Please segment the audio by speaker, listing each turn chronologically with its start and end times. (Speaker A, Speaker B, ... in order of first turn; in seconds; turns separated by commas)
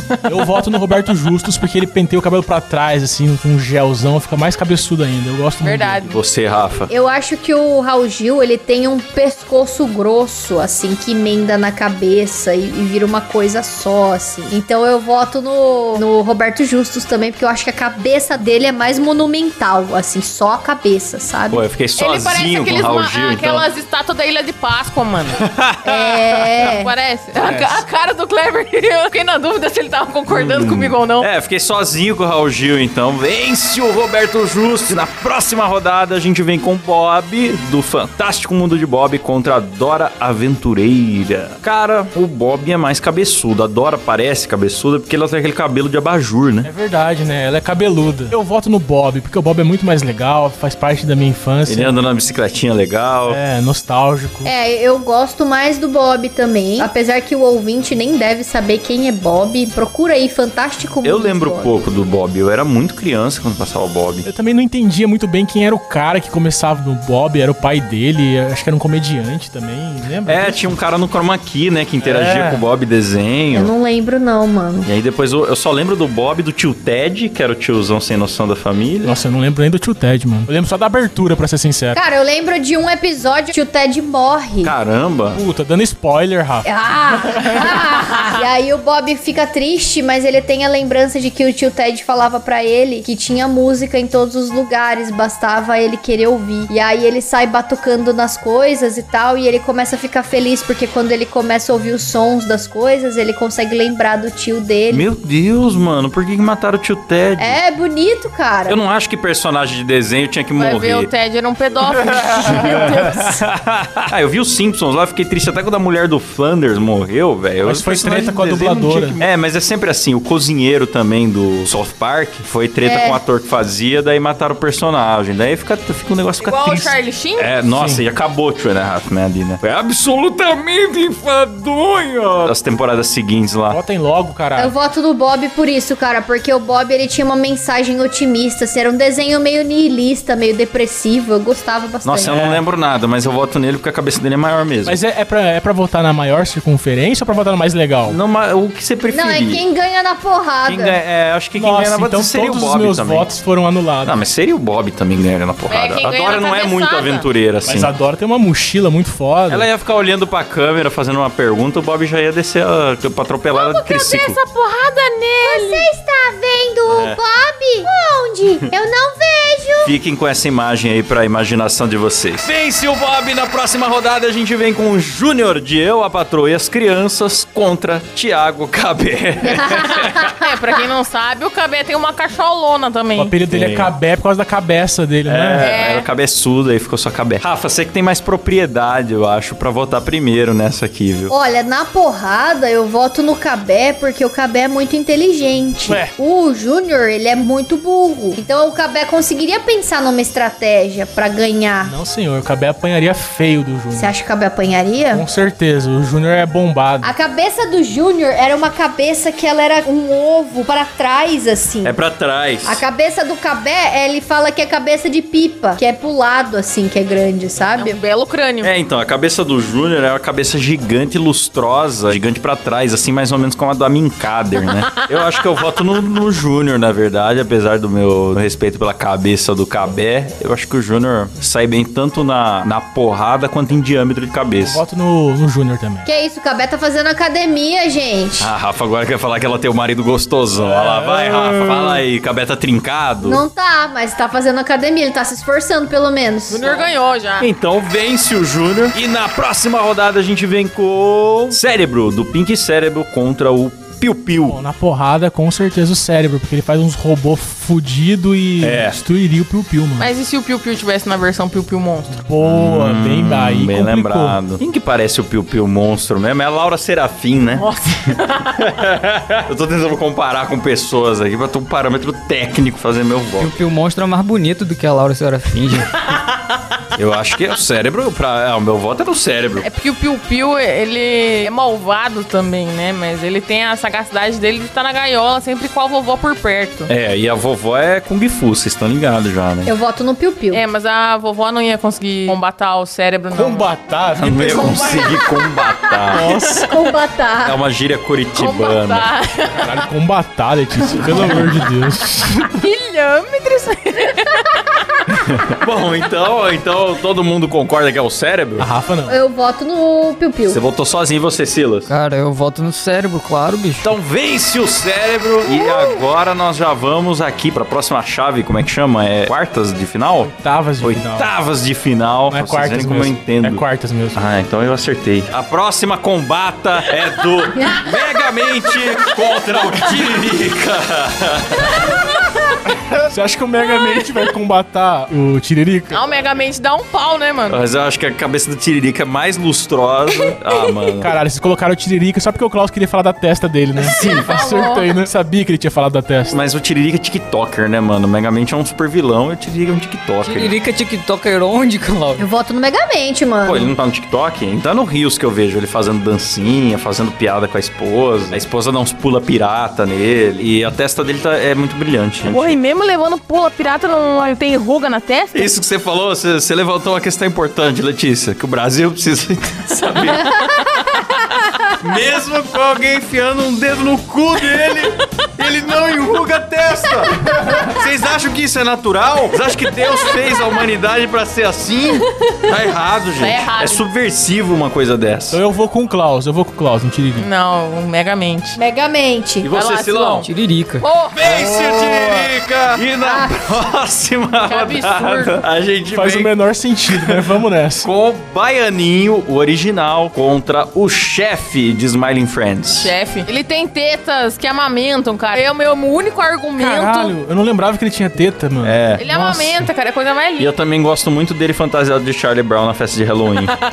Speaker A: 0.2-6.1, Speaker B: 5.6-6.2, Speaker C: 6.0-6.9, Speaker D: 6.9-21.6, Speaker C: 21.5-23.6, Speaker B: 22.0-25.4, Speaker C: 25.4-26.1, Speaker D: 25.9-26.9, Speaker B: 26.6-31.3, Speaker A: 27.4-27.8, Speaker C: 30.3-46.7, Speaker A: 46.6-51.9, Speaker C: 51.7-53.4, Speaker A: 53.3-54.5, Speaker D: 54.5-61.7, Speaker C: 61.0-64.3, Speaker A: 64.2-70.8, Speaker C: 70.3-73.7, Speaker A: 72.0-72.6, Speaker D: 73.5-74.9, Speaker C: 74.8-79.2, Speaker A: 79.0-82.0, Speaker D: 81.9-84.7, Speaker C: 84.6-85.4, Speaker A: 85.3-86.7, Speaker D: 86.7-105.0, Speaker A: 87.3-87.7, Speaker C: 104.9-107.6, Speaker D: 107.4-108.8, Speaker C: 108.7-111.1, Speaker B: 110.6-113.2, Speaker C: 112.0-133.8, Speaker D: 112.7-113.1, Speaker A: 117.6-119.2, Speaker D: 122.8-123.2, Speaker B: 126.4-127.5, Speaker A: 127.7-128.0, Speaker A: 133.7-134.8, Speaker D: 134.6-142.4, Speaker C: 142.1-145.0, Speaker A: 142.2-142.6, Speaker A: 144.8-148.2, Speaker C: 148.1-149.6, Speaker D: 149.1-151.0, Speaker C: 150.7-153.3, Speaker A: 151.6-154.2, Speaker C: 154.0-157.9, Speaker B: 155.7-157.3, Speaker A: 157.7-159.7, Speaker C: 159.5-164.4, Speaker B: 163.5-165.9, Speaker D: 165.4-169.9, Speaker C: 166.9-167.2, Speaker C: 169.8-180.3, Speaker D: 179.4-180.4, Speaker B: 180.0-183.4, Speaker A: 183.2-185.7, Speaker C: 183.5-183.9, Speaker C: 185.3-191.3, Speaker B: 185.6-186.1, Speaker D: 191.3-201.9, Speaker A: 195.9-196.1, Speaker A: 201.8-204.1, Speaker D: 203.9-205.2, Speaker A: 205.1-207.1, Speaker D: 207.0-212.0, Speaker C: 211.8-212.8, Speaker D: 212.6-218.0, Speaker B: 217.7-218.7, Speaker C: 218.6-234.8, Speaker A: 234.6-236.1, Speaker D: 236.1-238.5, Speaker C: 238.4-243.4, Speaker A: 240.6-242.0, Speaker D: 243.2-246.9, Speaker B: 246.5-247.5, Speaker C: 247.4-254.6, Speaker A: 254.5-260.1, Speaker C: 258.6-259.0, Speaker B: 260.0-262.2, Speaker A: 262.1-264.4, Speaker C: 262.4-273.6, Speaker B: 267.6-268.6, Speaker E: 273.4-275.9, Speaker C: 277.0-279.7, Speaker B: 279.6-286.9, Speaker C: 286.9-289.7, Speaker D: 289.7-290.6, Speaker B: 290.5-293.7, Speaker A: 293.3-295.1, Speaker C: 294.2-296.4, Speaker B: 294.5-296.7, Speaker A: 296.1-296.7, Speaker D: 296.6-297.6, Speaker C: 297.4-299.1, Speaker B: 298.3-299.8, Speaker A: 299.6-302.3, Speaker C: 300.9-301.5, Speaker B: 302.2-304.9, Speaker C: 305.1-308.7, Speaker A: 308.6-309.2, Speaker D: 309.1-310.6, Speaker C: 310.5-311.9, Speaker E: 311.9-313.9, Speaker C: 313.8-331.8, Speaker D: 315.5-316.0, Speaker A: 320.2-321.3, Speaker A: 322.3-324.2, Speaker A: 332.9-336.0, Speaker B: 335.9-337.6, Speaker C: 337.5-341.1, Speaker A: 341.0-346.4, Speaker B: 343.8-344.9, Speaker C: 343.9-344.3, Speaker C: 346.3-350.6, Speaker E: 350.2-352.3, Speaker D: 352.2-353.7, Speaker C: 353.4-362.6, Speaker B: 362.3-365.5, Speaker C: 365.3-370.8, Speaker C: 371.8-385.4, Speaker B: 383.2-383.8, Speaker A: 385.3-387.3, Speaker B: 387.2-388.6, Speaker D: 388.6-389.5, Speaker C: 389.4-390.3, Speaker B: 389.5-390.3, Speaker E: 390.2-390.9, Speaker B: 390.8-391.2, Speaker C: 391.1-396.3, Speaker A: 391.3-392.1, Speaker D: 393.0-393.5, Speaker B: 394.4-395.4, Speaker A: 395.9-397.9, Speaker C: 396.9-397.3, Speaker C: 397.8-402.9, Speaker B: 402.8-407.1, Speaker A: 406.6-409.7, Speaker C: 408.6-409.0, Speaker B: 409.0-410.5, Speaker C: 410.4-413.5